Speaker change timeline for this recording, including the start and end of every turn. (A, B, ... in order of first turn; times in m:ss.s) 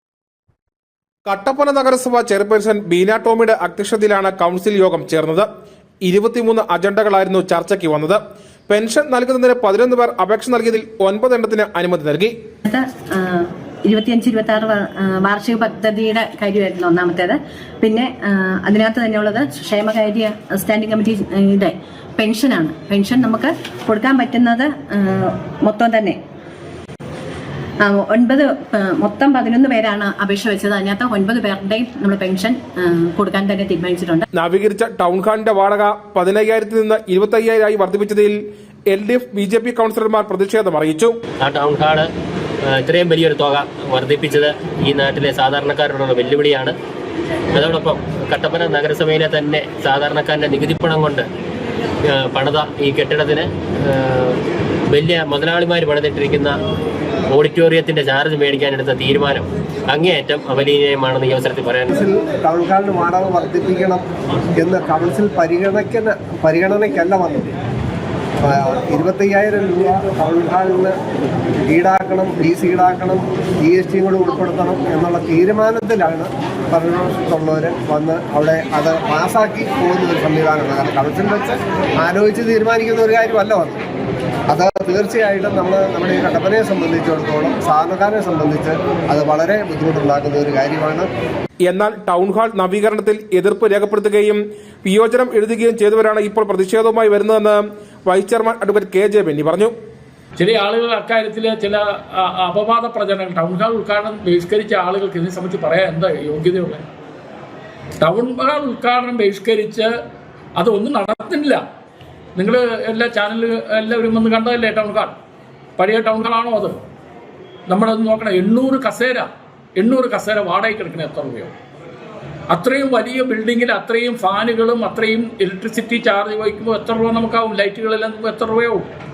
0:01.2-0:05.5 A
0:06.0-0:12.3 A
0:12.7-0:26.2 B
0:27.9-0:34.2 B
0:34.3-0:41.1 A
0:41.4-0:42.1 C
0:42.7-0:46.8 C
0:47.5-0:51.2 C
0:52.1-0:54.4 C
0:54.9-0:56.5 C
0:57.3-1:01.9 C
1:01.9-1:07.5 D
1:08.4-1:10.9 D
1:11.7-1:23.8 D
1:24.5-1:31.1 D
1:31.7-1:39.7 A
1:40.4-1:46.8 E
1:48.0-1:49.9 E
1:50.6-1:51.6 E
1:52.4-1:55.1 E
1:55.8-1:56.8 E
1:57.7-2:01.5 E
2:02.5-2:08.9 E